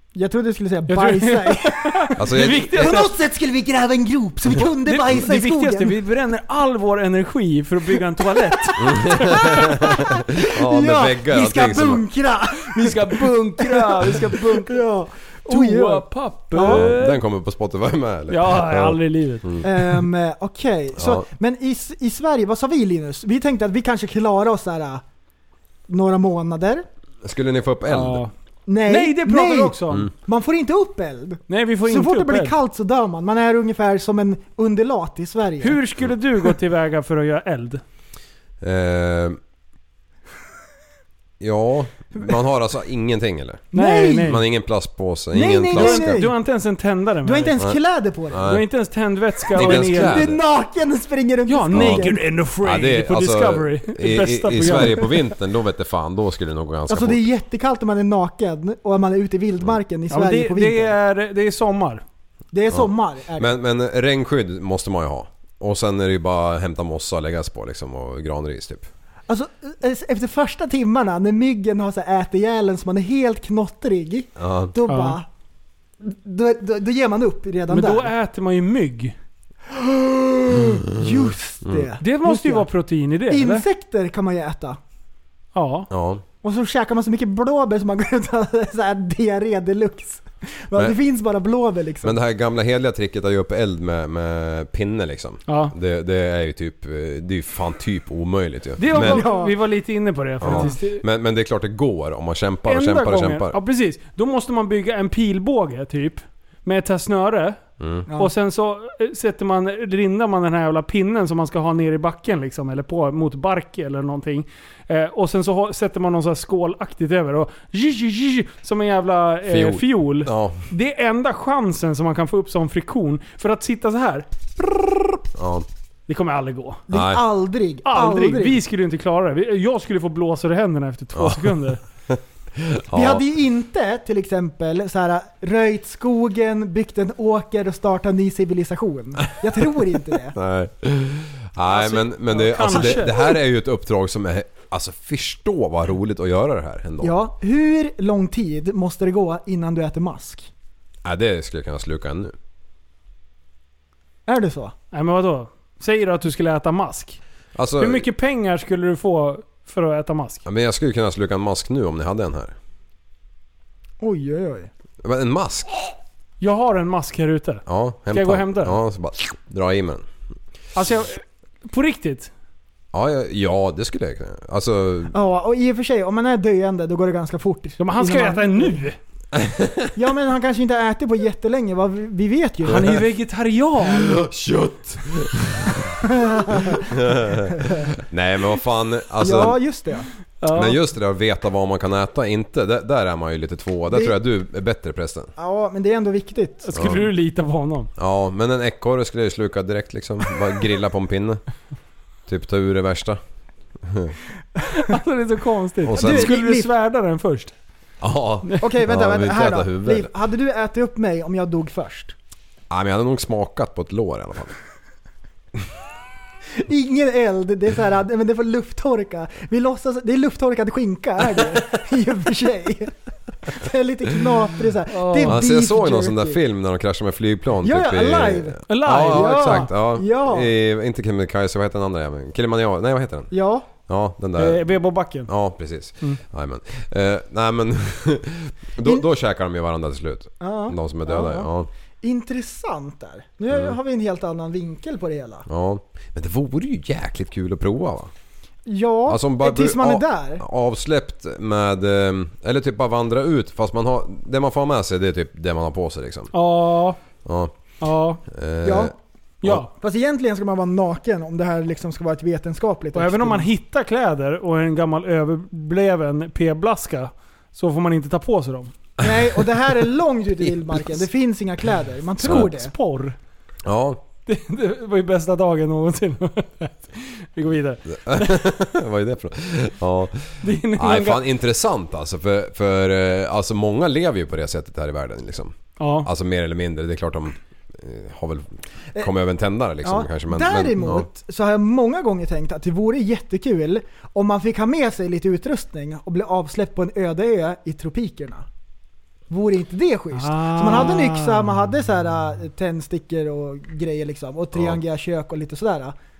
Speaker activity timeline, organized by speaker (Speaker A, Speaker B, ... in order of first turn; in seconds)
Speaker A: 0.1-6.0, 8.6-16.9, 19.6-25.0, 25.9-26.9, 28.7-35.8, 43.7-44.4, 45.3-46.4, 47.2-48.5, 49.5-52.2, 56.9-60.9, 62.5-63.5, 69.3-75.3, 76.0-78.1, 79.7-82.7, 83.3-84.8, 86.4-92.2, 98.9-99.5, 100.4-100.7, 126.9-128.6, 132.9-140.4, 142.7-143.0, 147.0-150.5, 154.3-154.8, 164.0-164.7, 175.1-178.8, 179.9-183.0, 186.1-186.8, 187.5-187.9, 189.2-190.1, 195.4-196.7, 205.9-206.7, 208.6-212.2, 216.6-222.9, 223.4-226.4, 227.6-230.5, 233.3-233.7, 240.4-241.5, 242.0-245.5, 248.7-250.4, 258.6-258.9, 259.7-263.5, 269.0-272.7, 289.8-298.5, 299.3-305.9
Speaker B: 0.9-3.1, 4.8-9.7, 12.7-14.8, 15.5-17.2, 18.3-19.5, 27.9-28.3, 28.9-30.1, 31.5-32.5, 35.6-37.8, 43.7-44.4, 45.7-47.6, 48.5-50.3, 51.5-55.2, 60.1-62.0, 74.9-75.2, 77.7-79.2, 82.0-83.7, 85.5-85.9, 95.5-95.7, 98.8-101.0, 102.7-107.6, 108.1-125.2, 126.1-126.8, 127.8-131.8, 141.7-143.3, 154.9-157.2, 157.8-160.4, 166.4-168.8, 170.8-172.3, 177.8-179.0, 182.7-184.2, 190.4-190.8, 196.6-197.9, 204.7-207.5, 224.9-225.4, 228.7-229.7, 234.4-235.3, 256.3-257.0, 257.8-258.2, 259.4-259.7, 262.9-268.7, 272.2-273.2, 274.3-278.4, 280.4-281.2, 285.8-286.1, 300.1-301.5
Speaker C: 2.2-3.0, 8.8-12.1, 16.6-20.1, 21.0-21.3, 27.2-28.2, 38.6-39.4, 41.4-46.2, 47.6-48.7, 49.5-50.4, 51.7-57.2, 62.7-68.9, 74.4-74.7, 81.0-81.9, 85.9-86.2, 92.0-99.3, 100.4-103.6, 107.8-108.1, 119.5-120.7, 125.3-125.7, 126.9-127.2, 131.2-133.2, 140.3-147.2, 151.1-152.4, 157.6-158.1, 160.5-162.6, 165.0-165.7, 167.7-170.1, 172.9-175.1, 179.3-179.9, 182.7-183.0, 183.8-189.6, 190.5-195.3, 196.8-197.1, 198.0-201.4, 202.3-203.2, 203.8-204.2, 205.8-206.3, 208.0-210.1, 212.7-214.6, 225.2-234.7, 235.3-241.7, 243.5-243.8, 245.5-248.1, 249.1-256.3, 257.2-257.5, 258.3-259.6, 272.2-272.5, 273.6-274.0, 277.9-291.1, 304.5-304.8